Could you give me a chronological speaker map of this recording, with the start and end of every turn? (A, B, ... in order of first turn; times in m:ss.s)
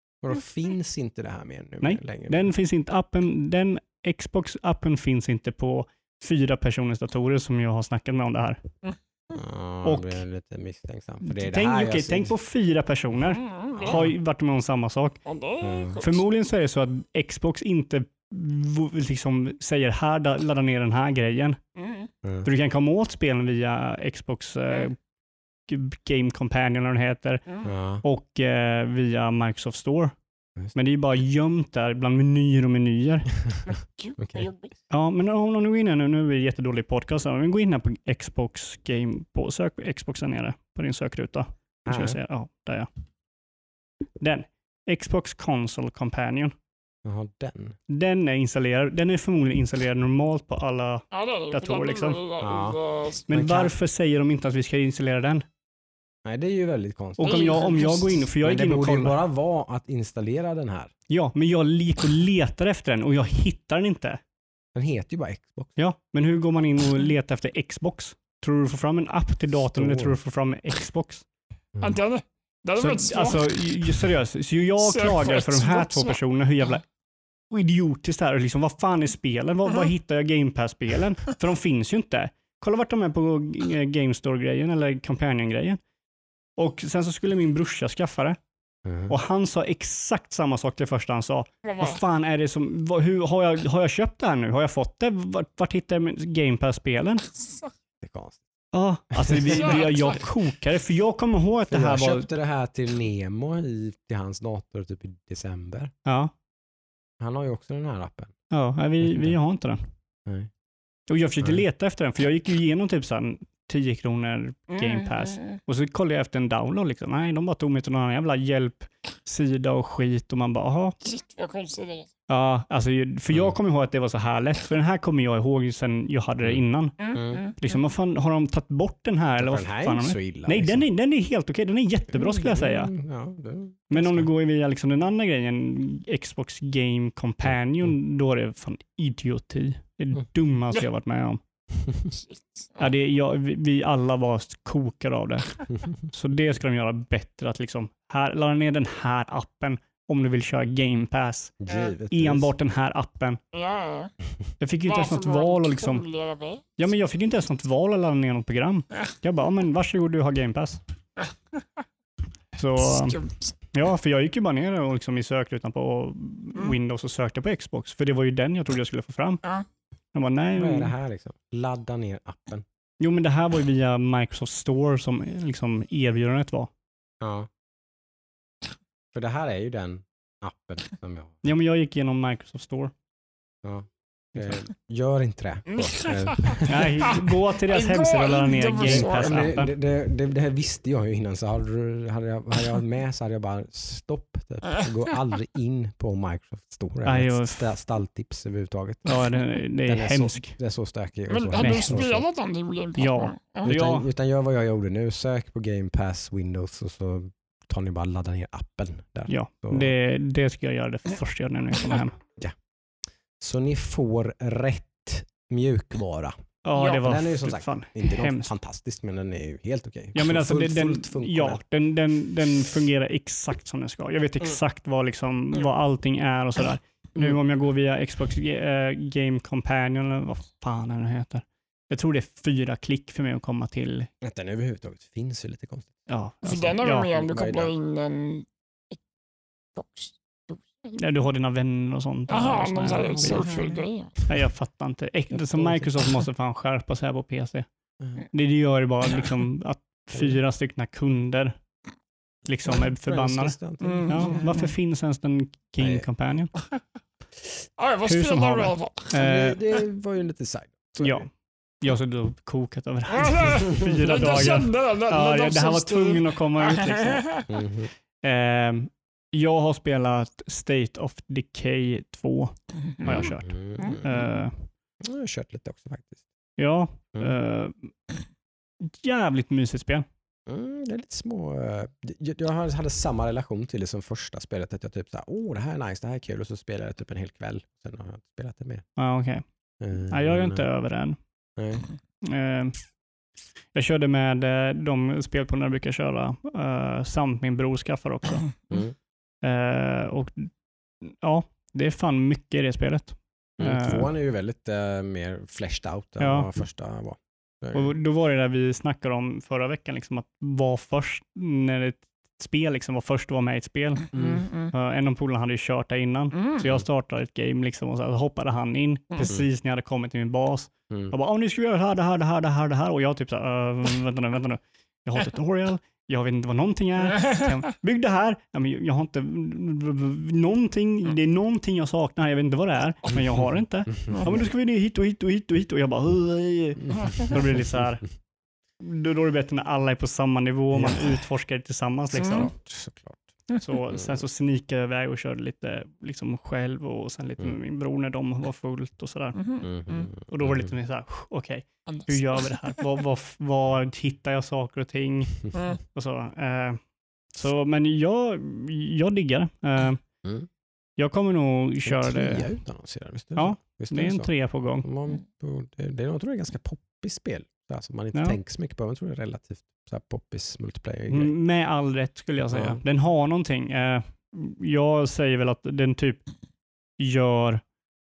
0:00.2-0:02.4 A
0:01.8-0:08.6 B
0:09.3-0:12.3 A
0:09.8-0:10.2 B
0:11.2-0:15.2 B
0:13.4-0:14.0 C
0:13.7-0:14.0 A
0:15.2-0:16.2 C
0:15.6-0:16.0 A
0:16.0-0:21.6 B
0:21.8-0:22.1 C
0:22.4-0:25.0 B
0:25.7-0:27.4 B
0:27.6-0:28.0 A
0:28.0-0:30.2 B
0:30.7-0:33.4 B
0:33.7-0:34.7 C
0:34.2-0:34.4 A
0:34.9-0:42.9 B
0:41.8-0:42.2 A
0:44.2-0:46.5 B
0:47.0-0:47.8 A
0:47.9-0:52.2 B
0:51.1-0:53.3 C
0:52.4-0:53.7 A
0:53.3-0:55.4 B
0:56.2-0:57.6 A
0:57.2-0:59.2 B
0:57.2-0:58.2 C
0:58.4-1:00.9 A
1:01.1-1:04.2 B
1:04.7-1:05.8 A
1:05.8-1:11.2 B
1:09.7-1:10.2 A
1:11.8-1:13.6 C
1:12.8-1:16.8 B
1:14.8-1:16.2 C
1:17.5-1:25.8 B
1:26.6-1:28.4 B
1:28.8-1:29.1 A
1:29.1-1:37.3 B
1:31.6-1:32.0 C
1:38.0-1:38.4 A
1:38.7-1:42.3 B
1:39.2-1:39.6 A
1:39.5-1:40.2 C
1:41.7-1:45.9 A
1:46.0-1:46.3 B
1:47.2-1:48.3 A
1:48.5-1:49.8 B
1:49.0-1:49.3 A
1:50.2-1:50.5 A
1:51.1-2:01.0 B
1:54.7-1:55.6 C
2:01.0-2:02.1 C
2:02.3-2:06.9 B
2:06.4-2:07.4 A
2:07.0-2:07.6 C
2:07.6-2:12.9 B
2:09.4-2:10.8 A
2:12.1-2:14.3 A
2:13.9-2:21.4 B
2:21.8-2:22.1 A
2:22.3-2:22.8 C
2:22.8-2:31.5 B
2:31.6-2:32.5 A
2:32.1-2:33.4 B
2:33.5-2:34.1 C
2:34.6-2:36.0 B
2:34.8-2:36.7 C
2:36.8-2:40.8 B
2:42.6-2:43.2 B
2:42.8-2:43.5 C
2:43.7-2:49.4 B
2:50.1-2:50.9 B
2:50.6-2:52.6 A
2:53.0-2:56.7 B
2:57.2-2:57.5 A
2:59.1-3:01.4 A
3:01.4-3:02.9 B
3:03.6-3:07.3 A
3:05.7-3:07.1 C
3:06.6-3:09.7 B
3:07.7-3:09.5 C
3:08.8-3:19.1 A
3:17.0-3:17.8 B
3:19.0-3:20.6 B
3:19.8-3:22.2 A
3:21.3-3:23.7 C
3:21.6-3:22.0 B
3:23.0-3:24.1 B
3:23.6-3:29.9 A
3:29.3-3:32.2 B
3:33.4-3:36.4 A
3:36.6-3:38.5 B
3:37.0-3:41.6 A
3:40.1-3:54.1 B
3:47.1-3:47.4 A
3:54.2-3:56.0 A
3:56.1-3:57.1 B
3:56.4-3:59.0 C
3:56.5-3:57.7 A
3:59.7-4:01.0 C
4:01.0-4:03.5 B
4:02.3-4:04.1 C
4:03.2-4:03.8 A
4:04.2-4:07.7 B
4:05.3-4:05.9 A
4:08.0-4:08.2 A
4:08.2-4:11.6 B
4:10.1-4:10.4 A
4:12.4-4:16.5 B
4:12.6-4:14.7 A
4:13.8-4:14.5 C
4:15.8-4:16.0 A
4:17.8-4:19.1 C
4:18.0-4:19.6 B
4:19.1-4:21.2 A
4:21.0-4:21.3 B
4:21.8-4:27.4 B
4:23.1-4:27.4 C
4:27.5-4:27.9 A
4:28.2-4:34.7 B
4:33.0-4:33.3 C
4:33.1-4:34.2 A
4:35.0-4:36.2 A
4:36.6-4:37.9 B
4:38.9-4:40.0 B
4:40.5-4:48.8 A
4:49.0-4:49.4 B
4:49.8-4:50.6 A
4:50.1-4:51.2 B
4:51.6-4:51.8 A
4:52.2-4:52.8 B
4:53.7-4:58.6 B
4:58.7-4:58.9 A
4:59.4-5:00.5 B
5:01.0-5:04.1 B
5:03.6-5:07.9 A
5:06.2-5:06.5 B
5:07.7-5:14.1 B
5:14.1-5:14.5 A
5:14.2-5:14.7 C
5:14.7-5:38.0 B
5:16.4-5:16.6 C
5:33.1-5:34.4 A
5:36.8-5:37.4 A
5:38.8-5:42.5 B
5:40.7-5:41.1 A
5:42.1-5:43.3 A
5:42.2-5:42.5 C
5:43.6-5:49.4 B
5:43.9-5:44.2 A
5:49.4-5:50.1 C
5:49.6-5:50.7 A
5:50.3-5:56.8 B
5:51.9-5:52.8 C
5:57.3-6:00.0 B
6:01.0-6:02.5 B
6:01.8-6:04.3 A
6:03.4-6:04.8 B
6:04.8-6:11.3 A
6:11.1-6:16.2 B
6:12.5-6:12.8 A
6:17.0-6:17.6 B